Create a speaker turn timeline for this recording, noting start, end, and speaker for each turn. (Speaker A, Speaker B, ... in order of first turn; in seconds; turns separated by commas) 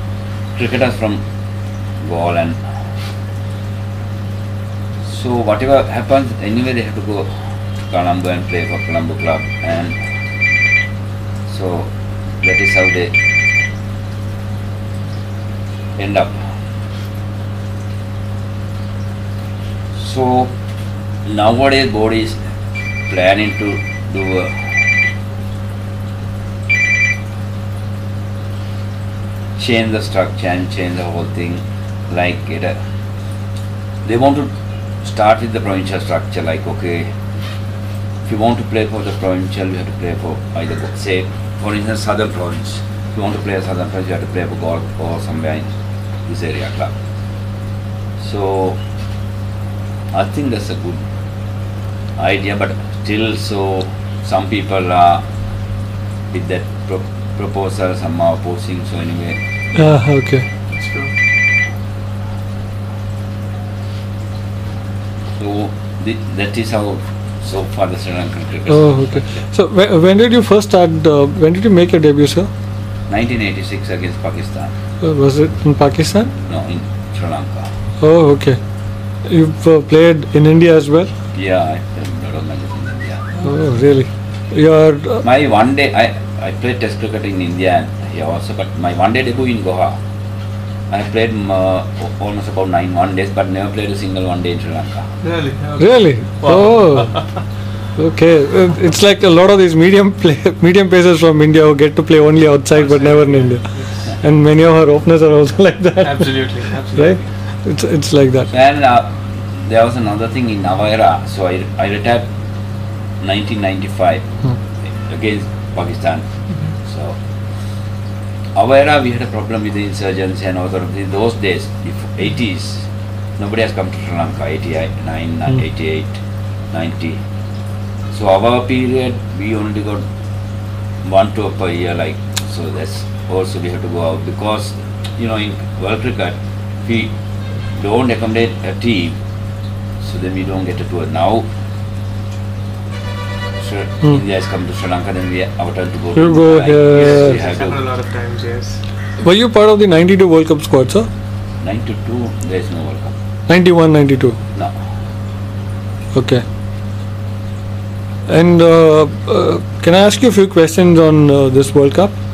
Speaker A: 0.5-1.2, Speaker A: 2.0-2.6, Speaker A: 5.0-10.0, Speaker A: 11.4-13.2, Speaker A: 15.9-16.5, Speaker A: 19.9-20.5, Speaker A: 21.2-22.4, Speaker A: 23.1-24.9, Speaker A: 29.6-32.8, Speaker A: 34.0-37.1, Speaker A: 38.2-45.7, Speaker A: 46.2-47.0, Speaker A: 48.2-48.8, Speaker A: 50.1-51.0, Speaker A: 52.2-55.2, Speaker A: 56.3-59.4, Speaker B: 59.7-60.4, Speaker C: 60.7-61.1, Speaker A: 65.4-69.4, Speaker B: 68.7-72.5, Speaker A: 73.1-74.7, Speaker B: 75.0-76.3, Speaker A: 76.4-77.7, Speaker B: 78.0-78.6, Speaker B: 79.2-81.1, Speaker A: 81.3-83.3, Speaker B: 83.4-85.2, Speaker A: 85.2-90.0, Speaker A: 90.9-95.1, Speaker C: 95.2-97.3, Speaker B: 95.8-97.3, Speaker B: 98.0-108.5, Speaker C: 102.7-104.1, Speaker C: 106.0-107.2, Speaker A: 108.5-112.3, Speaker A: 113.2-114.2, Speaker A: 115.0-116.2, Speaker A: 116.8-117.2, Speaker A: 118.5-126.2, Speaker A: 126.7-127.2, Speaker A: 128.1-130.1, Speaker A: 131.0-137.1, Speaker A: 137.7-139.2, Speaker A: 140.0-141.5, Speaker A: 143.6-147.8, Speaker B: 146.1-147.4, Speaker C: 146.8-148.8, Speaker B: 149.2-151.1, Speaker A: 151.6-153.1, Speaker B: 153.5-154.4, Speaker B: 156.1-156.4, Speaker B: 158.3-162.1